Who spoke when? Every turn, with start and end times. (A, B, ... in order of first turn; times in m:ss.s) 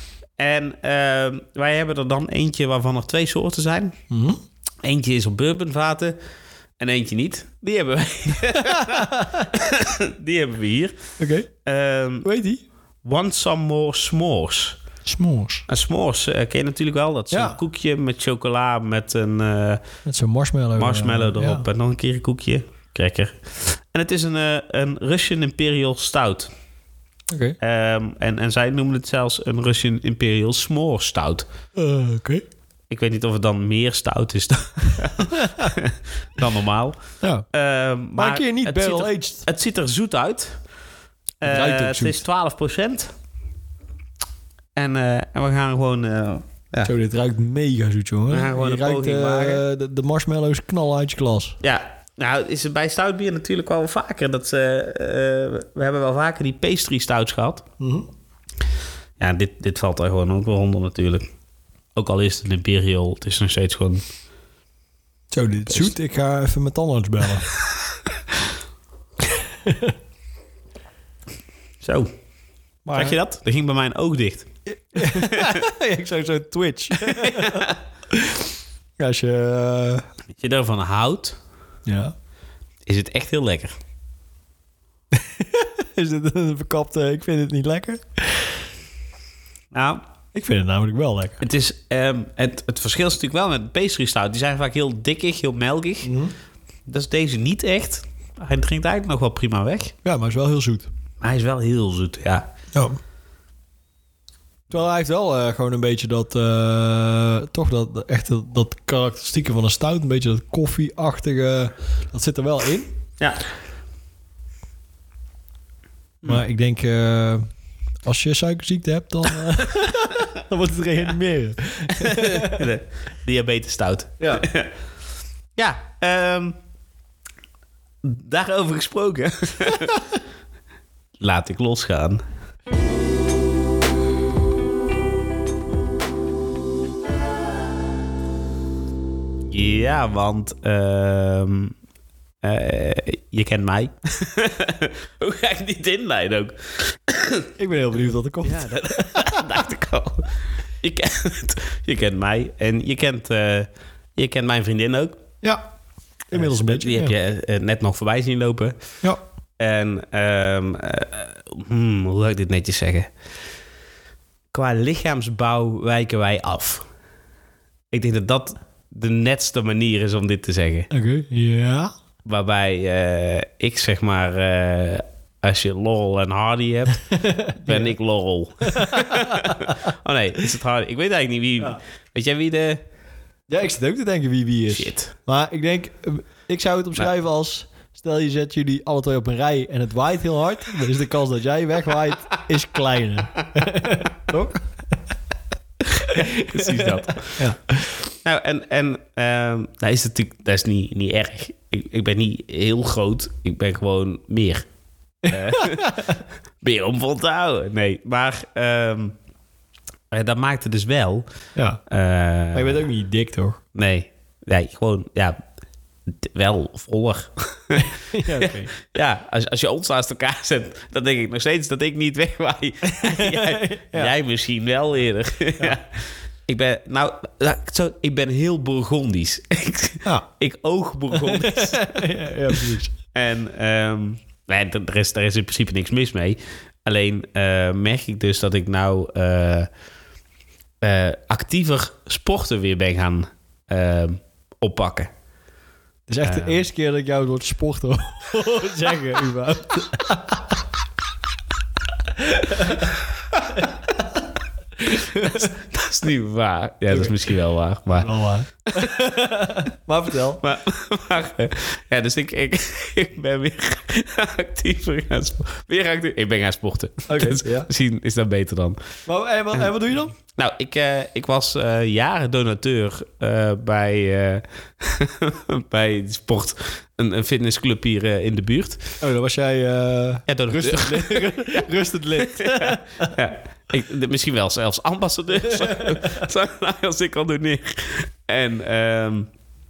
0:00.4-0:03.9 A
0:04.1-0:04.4 B
0:04.8-0:06.2 A
0:06.8-0:11.0 A
0:08.6-0:09.5 B
0:11.2-0:11.5 B
0:11.6-0:12.2 A
0:12.2-0:12.6 B
0:13.0-0:14.8 A
0:15.1-0:15.6 B
0:15.7-0:19.8 A
0:17.3-0:17.6 B
0:20.0-0:21.6 B
0:20.8-0:26.5 A
0:27.3-0:27.6 B
0:27.6-0:31.5 A
0:31.8-0:32.4 B
0:32.9-0:37.0 A
0:35.2-0:35.7 B
0:37.2-0:37.4 B
0:37.5-0:40.6 A
0:38.2-0:39.4 B
0:41.4-0:43.1 A
0:41.4-0:42.2 B
0:44.8-0:46.9 A
0:46.8-0:51.6 B
0:48.3-0:49.6 A
0:51.6-0:57.6 A
0:57.8-0:58.1 B
0:59.2-1:01.2 A
1:02.0-1:04.0 A
1:05.3-1:07.5 B
1:09.3-1:09.9 B
1:11.8-1:12.1 A
1:12.9-1:13.2 B
1:12.9-1:15.6 A
1:14.7-1:18.4 B
1:17.0-1:17.8 A
1:19.0-1:20.0 B
1:20.4-1:21.4 A
1:21.9-1:22.1 B
1:22.9-1:23.7 A
1:25.1-1:28.6 B
1:29.7-1:30.0 A
1:30.3-1:31.4 B
1:31.4-1:36.1 A
1:36.0-1:36.3 B
1:36.9-1:39.9 A
1:40.0-1:40.9 B
1:41.2-1:42.5 A
1:42.7-1:43.0 B
1:44.7-1:52.9 B
1:56.2-1:57.4 B
1:58.0-2:02.7 B
2:02.0-2:04.7 A
2:04.2-2:04.4 B
2:05.6-2:06.6 A
2:08.0-2:10.0 A
2:11.2-2:12.2 A
2:19.4-2:21.7 A
2:22.4-2:27.5 A
2:27.6-2:29.5 B
2:28.4-2:35.2 A
2:36.3-2:37.1 B
2:36.3-2:38.8 A
2:39.6-2:43.1 A
2:44.5-2:46.9 A
2:47.9-2:50.9 A
2:50.9-2:51.9 B
2:52.2-2:57.1 A
2:57.1-2:57.9 B
2:57.6-3:02.8 A
2:58.6-2:59.8 B
3:03.5-3:14.6 B
3:04.7-3:05.1 A
3:15.9-3:18.0 B
3:16.1-3:17.5 A
3:18.1-3:24.6 A
3:25.2-3:26.0 A
3:25.2-3:26.2 B
3:26.6-3:29.1 A
3:30.1-3:31.3 A
3:31.9-3:32.8 A
3:32.5-3:33.6 B
3:33.7-3:35.4 A
3:36.1-3:52.6 A
3:37.8-3:38.7 B
3:42.8-3:44.1 B
3:51.1-3:52.9 B
3:53.1-3:59.7 A
4:00.8-4:05.1 A
4:06.1-4:10.6 B
4:06.2-4:06.6 A
4:12.2-4:14.3 B
4:14.8-4:15.5 B
4:15.2-4:18.1 A
4:16.9-4:17.2 B
4:18.0-4:20.4 B
4:20.4-4:28.8 A
4:27.1-4:27.7 B
4:29.1-4:30.1 B
4:30.3-4:39.0 A
4:39.0-4:43.2 B
4:40.3-4:49.3 A
4:45.4-4:46.2 B